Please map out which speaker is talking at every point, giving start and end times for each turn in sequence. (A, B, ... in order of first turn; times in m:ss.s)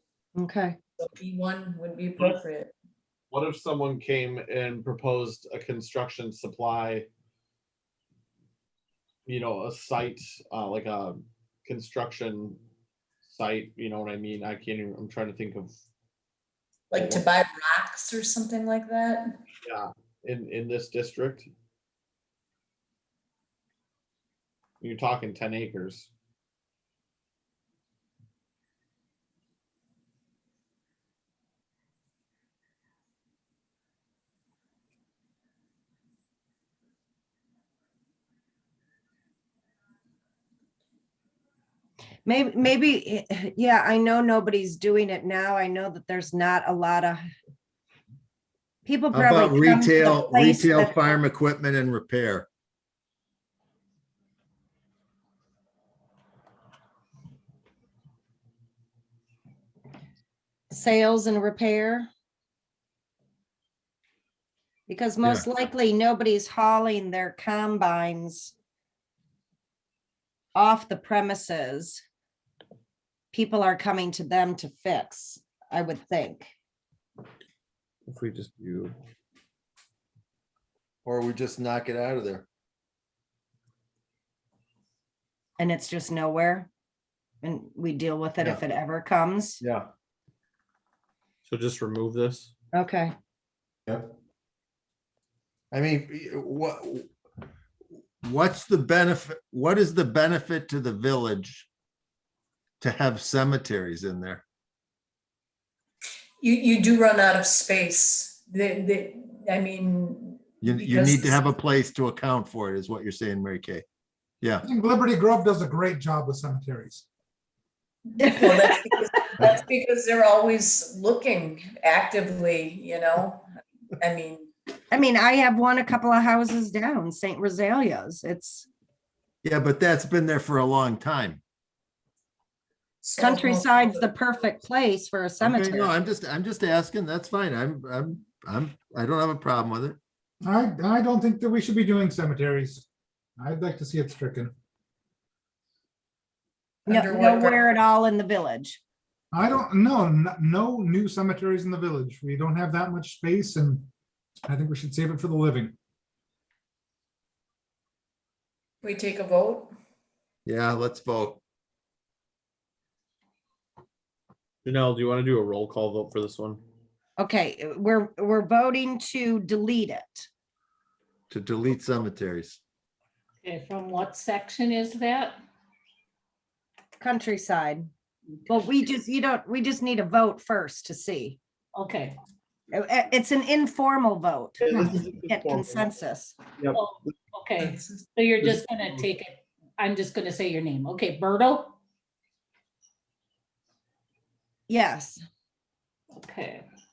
0:00.4-0:00.8 A
0:01.0-0:02.7 B
0:03.3-0:07.1 C
0:09.3-0:12.6 C
0:13.2-0:15.7 C
0:16.9-0:19.4 B
0:16.9-0:17.3 C
0:19.6-0:21.5 C
0:24.8-0:26.1 C
0:42.3-0:47.2 A
0:48.9-0:51.2 A
0:49.1-0:52.5 D
1:00.7-1:02.1 A
1:04.9-1:08.5 A
1:10.6-1:12.0 A
1:13.3-1:16.5 A
1:18.1-1:18.9 C
1:21.0-1:22.4 D
1:25.6-1:26.7 A
1:27.4-1:29.6 A
1:29.6-1:29.9 D
1:31.5-1:32.5 C
1:32.7-1:33.1 A
1:35.7-1:37.1 D
1:38.2-1:41.7 D
1:42.8-1:44.4 D
1:46.4-1:51.4 B
1:50.6-1:53.8 D
1:54.6-1:57.1 E
1:58.1-2:03.4 B
2:04.0-2:04.5 B
2:04.9-2:08.7 A
2:09.4-2:11.4 D
2:13.0-2:14.1 B
2:13.2-2:15.9 A
2:15.4-2:20.0 D
2:20.4-2:24.5 E
2:26.9-2:27.6 B
2:26.9-2:28.8 A
2:29.3-2:33.9 E
2:34.4-2:35.8 E
2:38.8-2:39.7 B
2:40.5-2:41.4 D
2:44.6-2:46.6 C
2:47.2-2:50.3 A
2:51.3-2:52.6 D
2:53.4-2:55.4 F
2:57.0-2:57.9 A
2:58.5-3:01.4 A
3:01.8-3:02.2 F
3:02.7-3:06.4 A
3:04.6-3:05.9 C
3:06.7-3:11.8 F
3:07.6-3:08.1 B
3:14.7-3:15.2 A
3:16.2-3:16.6 F